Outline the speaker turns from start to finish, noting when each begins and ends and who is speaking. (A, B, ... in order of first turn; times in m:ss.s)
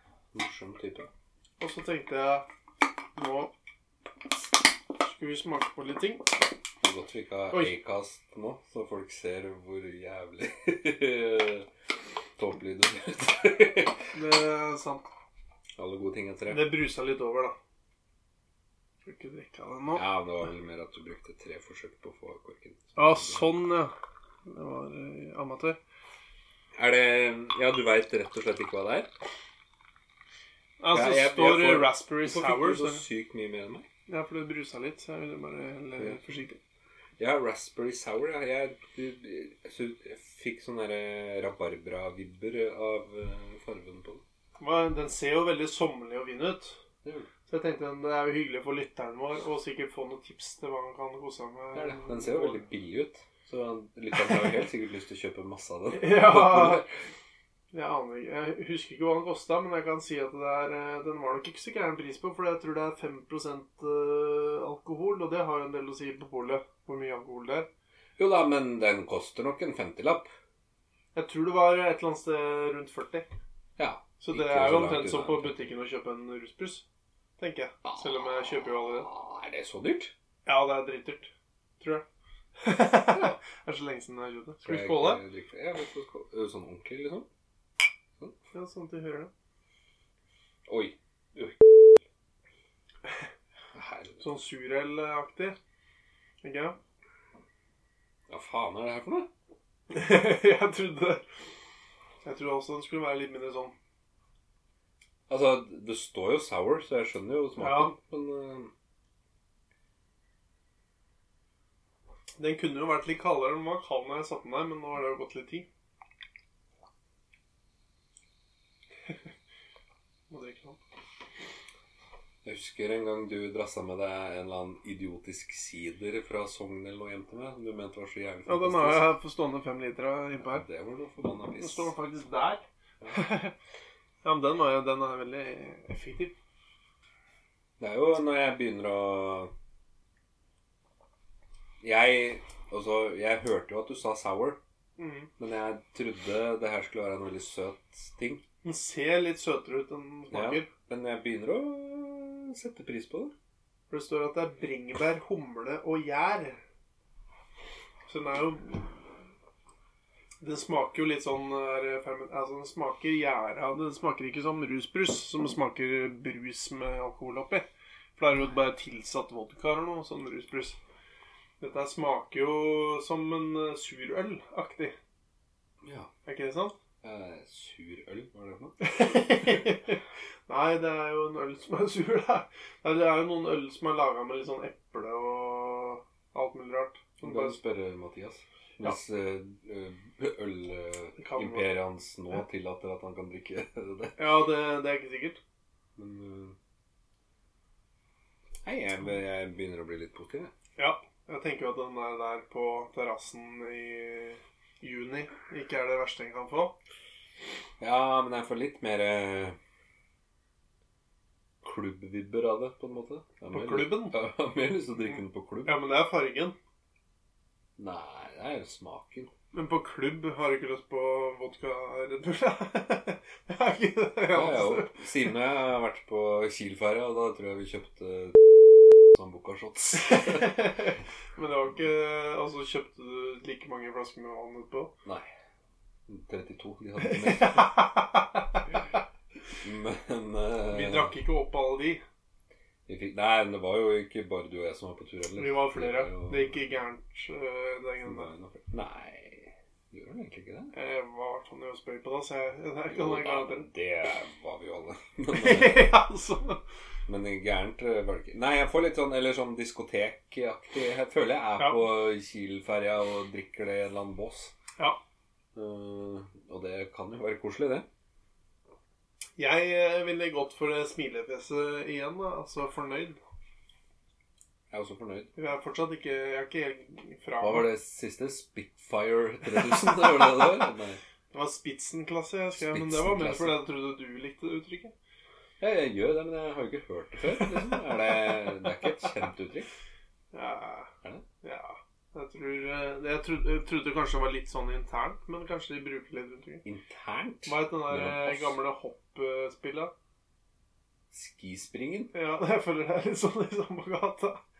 0:00.3-0:01.1 A
0:01.6-0:02.5 B
0:03.2-0:03.5 B
0:05.0-0:06.4 B
0:06.8-0:11.7 A
0:12.4-0:14.1 A
0:14.1-0:15.1 B
0:15.8-0:16.7 A
0:16.5-0:17.6 B
0:19.0-0:20.1 B
0:19.9-0:23.5 A
0:23.0-0:23.9 B
0:24.4-0:25.8 B
0:26.8-0:29.1 A
0:30.8-0:33.0 B
0:30.9-0:33.9 A
0:34.1-0:36.6 B
0:37.2-0:44.2 A
0:44.6-0:46.8 B
0:47.0-0:47.3 A
0:47.5-0:52.6 B
0:51.7-0:56.9 A
0:55.9-0:56.8 B
0:57.7-1:07.7 B
1:08.2-1:10.3 A
1:11.1-1:13.3 B
1:13.8-1:15.7 A
1:14.2-1:16.8 B
1:17.4-1:19.1 B
1:17.8-1:20.1 A
1:20.4-1:22.0 B
1:22.6-1:25.2 B
1:22.9-1:23.4 A
1:24.6-1:27.3 A
1:28.5-1:29.3 B
1:30.7-1:31.6 A
1:33.7-1:34.3 A
1:34.2-1:35.6 B
1:36.4-1:36.8 B
1:38.3-1:39.3 A
1:39.9-1:41.2 B
1:42.2-1:43.7 B
1:45.3-1:48.7 A
1:47.6-1:47.9 B
1:52.4-1:55.7 B
2:00.3-2:00.8 B
2:02.4-2:09.1 A
2:08.4-2:10.6 B
2:10.5-2:11.9 A
2:11.6-2:13.5 B
2:14.2-2:16.3 B
2:17.8-2:19.5 A
2:21.8-2:24.6 A
2:25.0-2:25.3 B
2:25.4-2:28.4 A
2:28.6-2:30.7 B
2:30.3-2:33.3 A
2:33.9-2:36.6 B
2:38.1-2:38.9 B
2:40.4-2:47.6 B
2:48.2-2:50.8 B
2:51.6-2:54.9 B
2:55.8-2:56.1 A
2:56.2-2:56.8 B
2:57.0-2:58.7 A
2:58.8-3:07.6 B
3:07.2-3:14.2 A
3:11.2-3:11.7 B
3:14.2-3:15.4 B
3:16.0-3:16.6 A
3:18.6-3:20.5 A
3:20.8-3:26.7 B
3:27.8-3:29.6 A
3:31.6-3:35.8 A
3:33.5-3:34.2 B
3:35.6-3:36.6 B
3:37.8-3:39.3 A
3:39.5-3:45.0 B
3:44.3-3:48.4 A
3:49.0-3:50.7 A
3:50.0-3:54.9 B
3:56.1-3:57.8 A
3:57.0-3:58.6 B
3:59.6-4:01.1 A
4:00.7-4:02.0 B
4:02.9-4:06.6 A
4:05.4-4:08.3 B
4:08.0-4:10.7 A
4:10.7-4:13.7 B
4:12.9-4:15.9 A
4:15.3-4:16.6 B
4:17.1-4:24.5 A
4:21.6-4:21.8 B
4:25.5-4:27.8 A
4:29.4-4:33.2 B
4:34.7-4:35.3 A
4:35.4-4:37.7 B
4:37.4-4:41.0 A
4:41.3-4:44.9 B
4:42.6-4:43.6 A
4:45.6-4:49.7 A
4:50.3-4:50.9 B
4:51.4-4:56.6 B
4:56.6-4:58.6 A
4:57.4-4:59.9 B
5:01.1-5:02.1 A
5:02.1-5:04.4 B